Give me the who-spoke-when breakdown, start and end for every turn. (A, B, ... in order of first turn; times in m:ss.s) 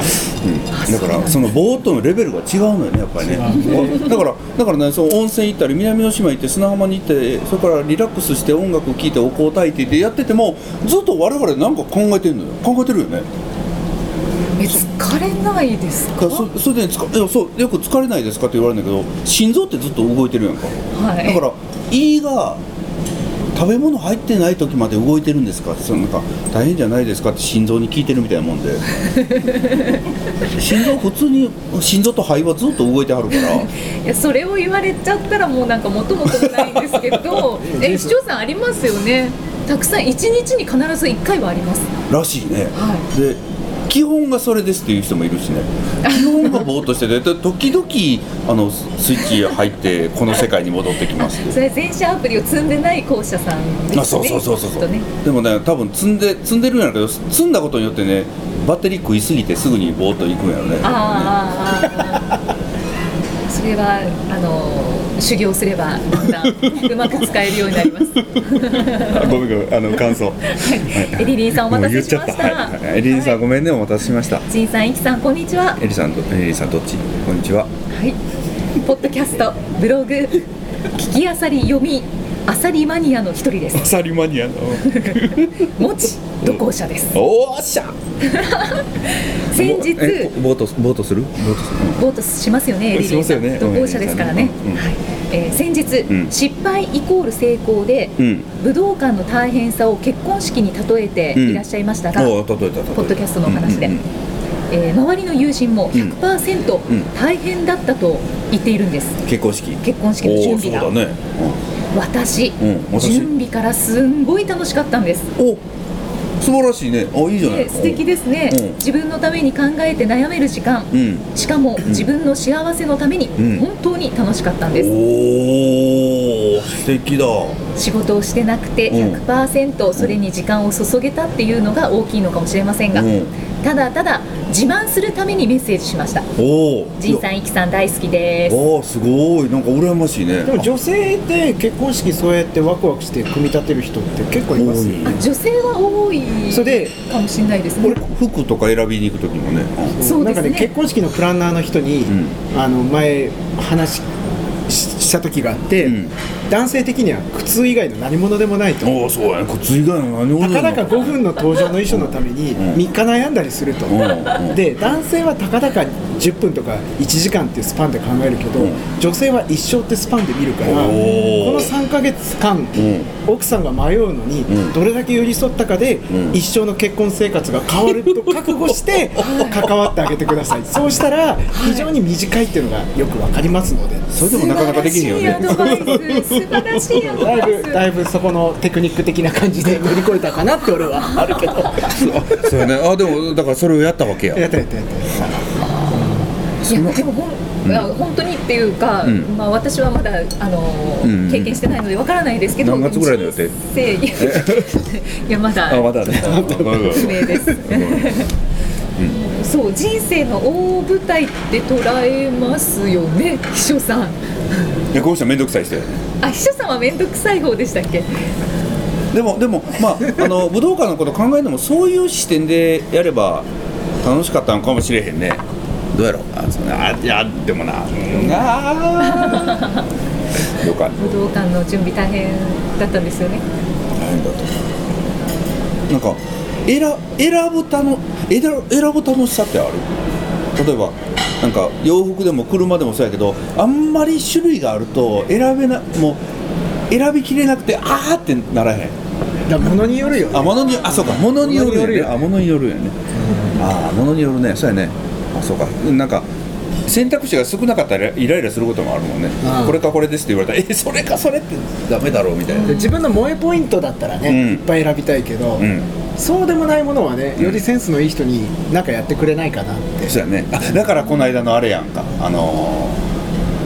0:00.2-0:13.3 A
0:00.7-0:01.6 B
0:03.2-0:04.1 C
0:03.5-0:04.0 B
0:14.6-0:16.5 B
0:16.2-0:22.6 A
0:20.9-0:21.4 B
0:23.5-0:28.9 A
0:29.0-0:30.0 B
0:30.5-0:33.7 A
0:33.3-0:41.9 B
0:36.3-0:37.3 A
0:37.6-0:38.2 C
0:42.1-0:51.6 A
0:42.7-0:43.1 B
0:46.0-0:46.7 B
0:51.2-0:55.1 B
0:53.9-1:01.4 A
1:00.8-1:02.3 B
1:03.5-1:09.3 B
1:06.6-1:07.2 A
1:07.9-1:14.4 A
1:10.5-1:13.4 B
1:14.5-1:15.8 B
1:15.8-1:17.7 A
1:17.9-1:18.2 B
1:18.8-1:23.9 B
1:23.8-1:25.7 A
1:24.9-1:27.2 B
1:27.1-1:28.0 A
1:28.2-1:30.3 B
1:29.5-1:32.0 A
1:32.0-1:42.4 B
1:32.9-1:34.8 A
1:38.2-1:38.5 A
1:41.4-1:41.6 A
1:42.2-1:44.1 A
1:42.9-1:44.0 B
1:44.7-1:49.2 B
1:49.3-1:51.6 A
1:49.8-1:50.9 B
1:51.9-1:55.3 B
1:52.6-1:53.3 A
1:56.4-1:58.8 A
1:57.4-2:05.0 B
2:00.9-2:01.3 A
2:01.8-2:02.1 A
2:03.4-2:03.6 A
2:04.7-2:07.6 A
2:07.8-2:16.3 B
2:08.9-2:09.2 A
2:12.9-2:13.3 A
2:16.4-2:17.2 A
2:17.0-2:18.6 B
2:18.5-2:20.7 A
2:20.4-2:25.1 C
2:24.5-2:25.2 A
2:25.0-2:28.0 B
2:26.5-2:27.0 C
2:27.8-2:30.0 A
2:30.0-2:34.1 C
2:30.0-2:30.7 B
2:32.1-2:32.4 A
2:34.7-2:39.0 C
2:35.8-2:36.1 A
2:38.8-2:41.3 A
2:40.4-3:04.1 C
2:41.9-2:42.8 A
2:43.9-2:44.6 A
2:50.6-2:51.7 A
2:50.9-2:51.5 B
2:52.8-2:53.1 A
2:54.5-2:54.8 A
2:56.1-2:56.4 A
2:57.9-2:59.7 A
2:59.2-2:59.6 B
3:01.5-3:01.9 B
3:04.1-3:07.3 A
3:04.3-3:07.8 B
3:06.9-3:12.2 C
3:11.9-3:14.4 A
3:14.3-3:16.2 C
3:15.6-3:28.3 B
3:16.6-3:17.0 A
3:17.6-3:17.9 A
3:19.0-3:19.3 A
3:21.0-3:21.6 A
3:22.6-3:23.6 A
3:24.1-3:24.8 A
3:25.7-3:28.2 A
3:26.1-3:27.6 C
3:29.1-3:34.2 B
3:34.9-3:36.0 A
3:36.2-3:38.1 B
3:39.1-3:43.5 A
3:44.0-3:49.6 A
3:49.1-3:49.8 B
3:50.5-3:51.2 A
3:51.0-3:53.4 B
3:54.0-3:54.6 A
3:55.9-3:59.8 A
4:00.6-4:06.2 A
4:06.9-4:08.9 A
4:09.5-4:12.2 C
4:10.3-4:13.0 A
4:13.2-4:13.5 C
4:13.6-4:16.3 A
4:16.9-4:22.8 A
4:19.4-4:19.8 C
4:22.5-4:23.1 B
4:22.7-4:30.2 C
4:24.2-4:24.7 A
4:25.6-4:25.9 A
4:27.4-4:27.6 A
4:30.1-4:33.0 A